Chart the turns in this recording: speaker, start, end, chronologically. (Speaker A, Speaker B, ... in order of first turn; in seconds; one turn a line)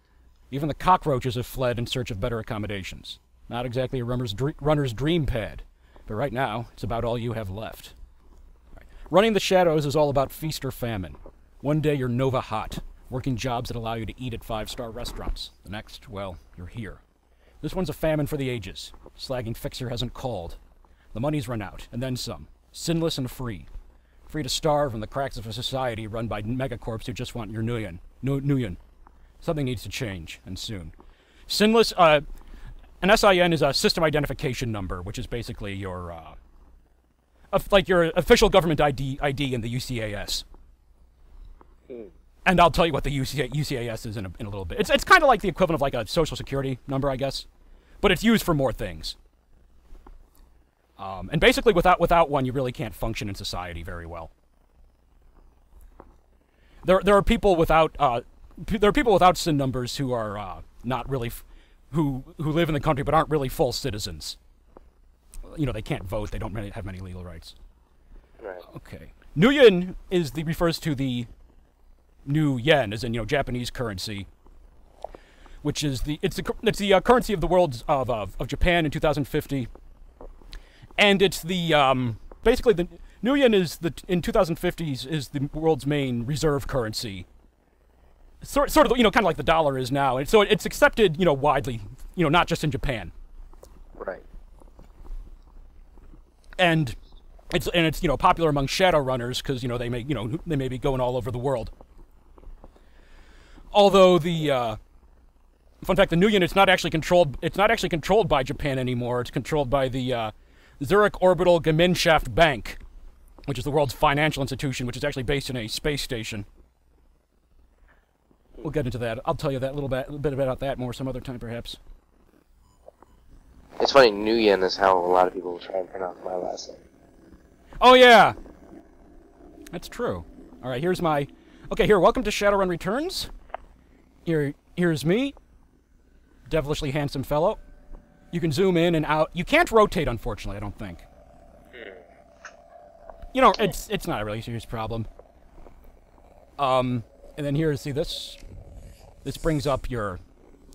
Speaker A: 0.5-7.9
Speaker A: 8.8-17.0
Speaker A: 17.6-20.6
Speaker A: 21.1-23.7
Speaker A: 24.3-28.8
Speaker A: 29.4-30.9
Speaker A: 31.5-32.2
Speaker A: 33.0-36.4
Speaker A: 37.5-40.4
Speaker A: 42.5-47.5
Speaker A: 48.0-49.2
Speaker A: 51.0-54.3
Speaker A: 56.8-64.4
Speaker A: 65.4-67.5
Speaker B: 68.4-68.7
Speaker A: 68.7-71.3
Speaker A: 72.2-74.3
Speaker A: 75.6-79.7
Speaker A: 81.0-87.3
Speaker A: 88.4-93.1
Speaker B: 94.0-94.2
Speaker A: 96.6-97.0
Speaker A: 97.5-101.7
Speaker A: 103.7-104.8
Speaker A: 105.8-112.8
Speaker A: 113.5-116.5
Speaker A: 118.6-121.8
Speaker B: 123.8-126.8
Speaker A: 127.8-128.3
Speaker A: 129.7-133.3
Speaker A: 134.2-135.3
Speaker A: 136.5-137.6
Speaker A: 138.3-141.1
Speaker B: 141.7-142.0
Speaker A: 143.3-145.1
Speaker A: 146.6-148.4
Speaker A: 149.2-150.2